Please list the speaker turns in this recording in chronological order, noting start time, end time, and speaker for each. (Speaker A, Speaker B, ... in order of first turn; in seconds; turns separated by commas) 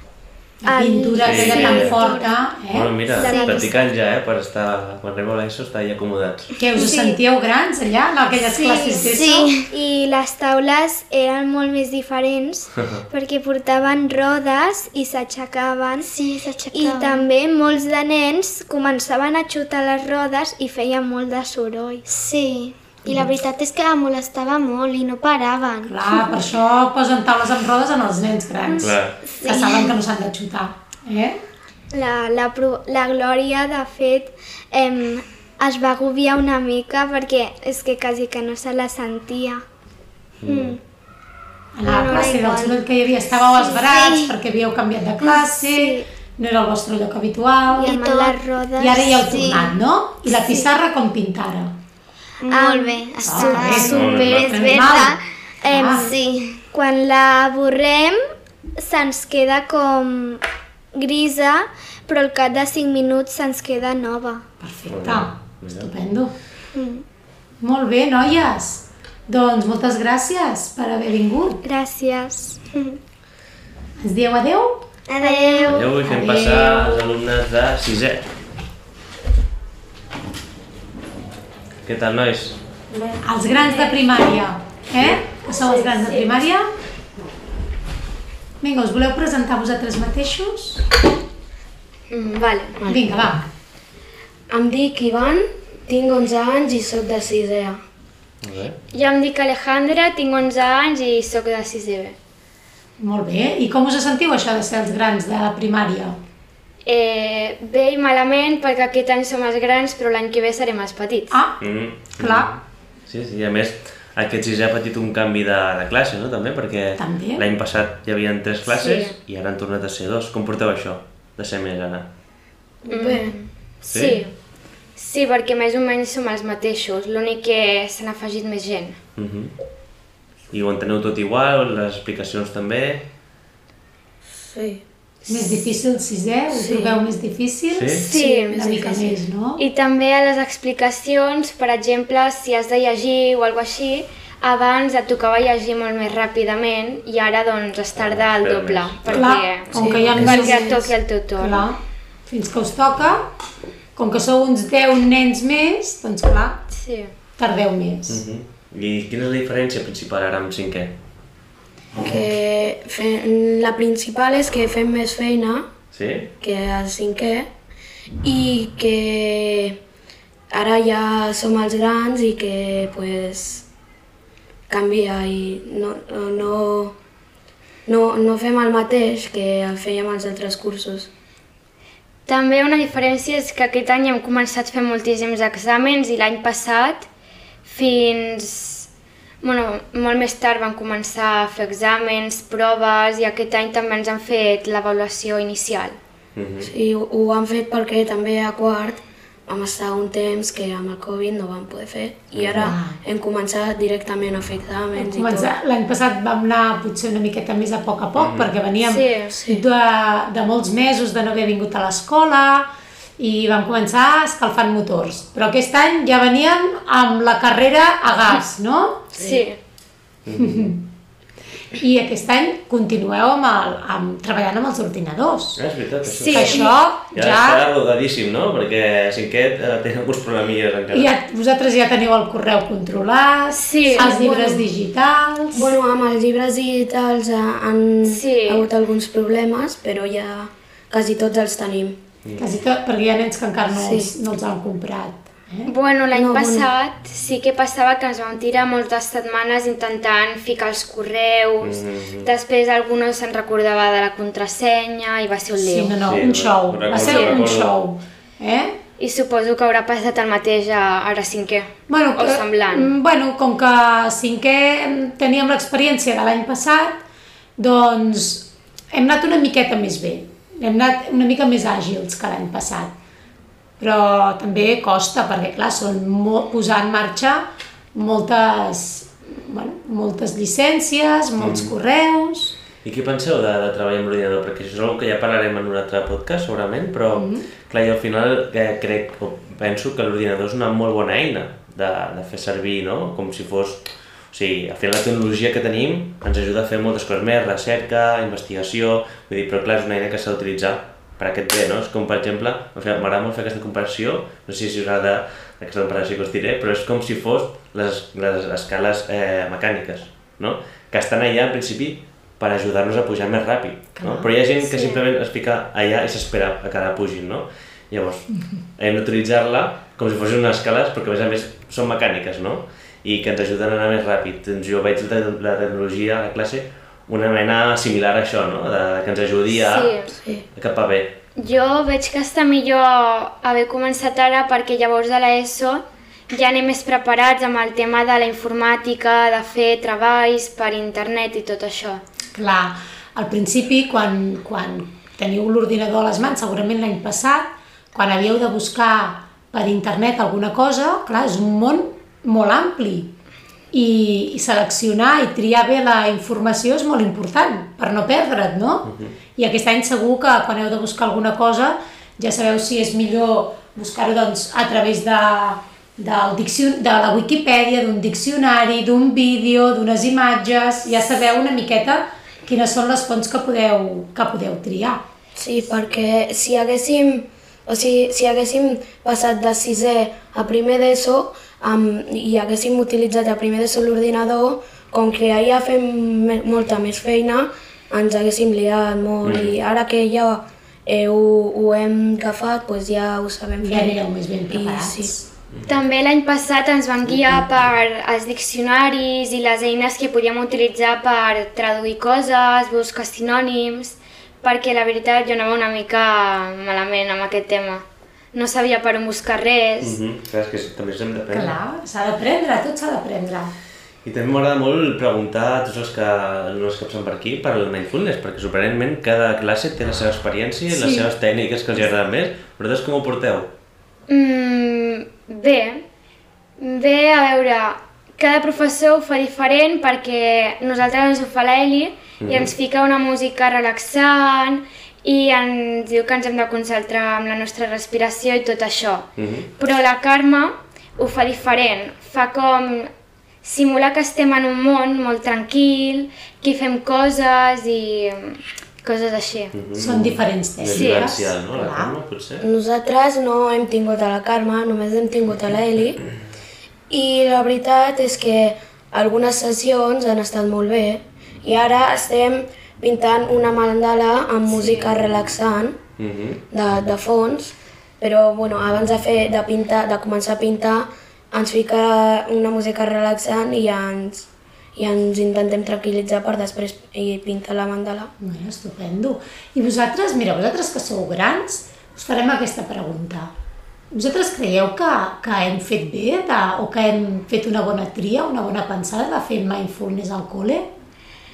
Speaker A: 0.6-3.0, Speaker B: 0.7-2.3, Speaker C: 1.2-2.0, Speaker C: 2.7-6.5, Speaker B: 3.1-3.9, Speaker D: 3.2-3.6, Speaker A: 6.6-9.5, Speaker B: 6.8-7.2, Speaker B: 8.6-9.1, Speaker D: 8.8-9.7, Speaker B: 9.7-16.1, Speaker D: 16.0-17.2, Speaker B: 16.7-22.0, Speaker D: 22.1-26.4, Speaker A: 25.9-31.4, Speaker D: 28.8-29.9, Speaker C: 28.8-29.2, Speaker B: 31.9-39.6, Speaker C: 40.4-40.8, Speaker D: 40.4-40.8, Speaker A: 41.7-47.9, Speaker D: 41.8-42.8, Speaker D: 43.3-44.3, Speaker D: 45.2-46.0, Speaker B: 47.8-48.4, Speaker D: 47.8-49.7, Speaker A: 48.8-51.7, Speaker D: 52.4-56.6, Speaker B: 52.5-55.0, Speaker A: 53.2-55.2, Speaker C: 53.9-54.7, Speaker B: 55.6-56.1, Speaker A: 55.7-56.1, Speaker B: 56.7-58.2, Speaker B: 58.8-60.4, Speaker B: 60.9-64.4, Speaker A: 64.6-66.3, Speaker C: 64.9-65.9, Speaker D: 66.7-67.0, Speaker A: 67.6-71.6, Speaker B: 71.6-72.6, Speaker D: 72.7-73.0, Speaker A: 74.0-74.9, Speaker D: 75.1-75.9, Speaker B: 75.2-75.9, Speaker C: 75.6-78.2, Speaker A: 76.0-77.0, Speaker C: 81.8-82.6, Speaker A: 83.2-86.7, Speaker C: 85.0-85.2, Speaker A: 88.6-90.8, Speaker E: 92.1-92.8, Speaker A: 92.9-93.5, Speaker F: 94.5-97.8, Speaker C: 98.4-98.8, Speaker E: 98.9-102.2, Speaker A: 103.0-106.2, Speaker E: 106.8-111.4, Speaker A: 111.3-111.6, Speaker C: 111.6-122.1, Speaker A: 112.2-112.5, Speaker A: 117.0-117.4, Speaker E: 118.7-119.1, Speaker F: 122.8-123.4, Speaker E: 122.9-124.3, Speaker C: 123.9-124.2, Speaker E: 125.0-129.0, Speaker C: 129.2-129.5, Speaker C: 130.5-133.0, Speaker F: 134.3-134.8, Speaker A: 135.3-139.6, Speaker F: 136.5-137.0, Speaker C: 137.7-138.0, Speaker E: 138.0-138.6, Speaker F: 138.1-139.2, Speaker E: 139.6-151.6, Speaker C: 147.9-150.4, Speaker A: 149.1-153.3, Speaker F: 149.7-150.8, Speaker A: 153.9-156.6, Speaker E: 156.7-157.1, Speaker A: 157.4-158.2, Speaker C: 158.1-160.9, Speaker F: 162.0-165.7, Speaker C: 165.9-166.3, Speaker F: 166.4-167.5, Speaker F: 168.2-169.8, Speaker F: 170.5-173.7, Speaker F: 174.7-176.9, Speaker F: 177.8-181.1, Speaker E: 182.2-187.1, Speaker E: 187.6-188.9, Speaker E: 189.4-196.0, Speaker C: 196.3-196.7, Speaker F: 196.6-205.5, Speaker C: 202.3-202.7, Speaker A: 202.6-203.0, Speaker A: 204.9-219.1, Speaker C: 208.2-208.5, Speaker E: 208.8-209.3, Speaker F: 209.3-209.6, Speaker E: 219.2-219.6, Speaker C: 220.2-220.7, Speaker A: 220.4-220.8, Speaker A: 221.7-225.6, Speaker C: 225.6-231.1, Speaker A: 226.2-227.6, Speaker E: 226.3-226.7, Speaker A: 230.9-235.7, Speaker E: 233.5-234.2, Speaker F: 233.9-234.7, Speaker F: 235.5-242.0, Speaker E: 238.1-238.7, Speaker C: 242.2-242.5, Speaker A: 242.4-245.7, Speaker F: 243.7-244.1, Speaker E: 245.7-256.0, Speaker F: 246.1-246.7, Speaker C: 251.6-252.3, Speaker A: 255.6-258.8, Speaker C: 256.0-257.8, Speaker E: 257.0-257.4, Speaker E: 259.0-262.9, Speaker A: 261.9-267.0, Speaker A: 267.6-272.9, Speaker A: 273.8-282.6, Speaker C: 281.4-281.7, Speaker C: 282.8-330.0, Speaker A: 287.1-287.4, Speaker A: 313.9-314.3, Speaker E: 329.6-330.1, Speaker F: 330.1-330.4, Speaker C: 330.5-331.1, Speaker E: 331.4-342.0, Speaker A: 342.3-353.1, Speaker A: 353.7-375.0, Speaker C: 358.9-359.1, Speaker F: 375.4-395.2, Speaker C: 389.2-389.6, Speaker A: 393.6-395.2, Speaker C: 395.5-395.8, Speaker E: 395.7-410.0, Speaker C: 409.8-411.6, Speaker A: 411.3-413.5, Speaker C: 414.0-423.5, Speaker A: 420.7-421.1, Speaker E: 424.1-425.8, Speaker E: 426.6-442.9, Speaker C: 432.2-432.5, Speaker C: 439.2-439.5, Speaker E: 443.4-449.5, Speaker C: 449.5-452.4, Speaker A: 449.8-451.9, Speaker E: 450.7-451.1, Speaker F: 452.4-456.0, Speaker F: 456.9-465.8, Speaker C: 466.0-466.4, Speaker F: 466.5-478.1, Speaker A: 478.2-483.3, Speaker A: 483.9-490.7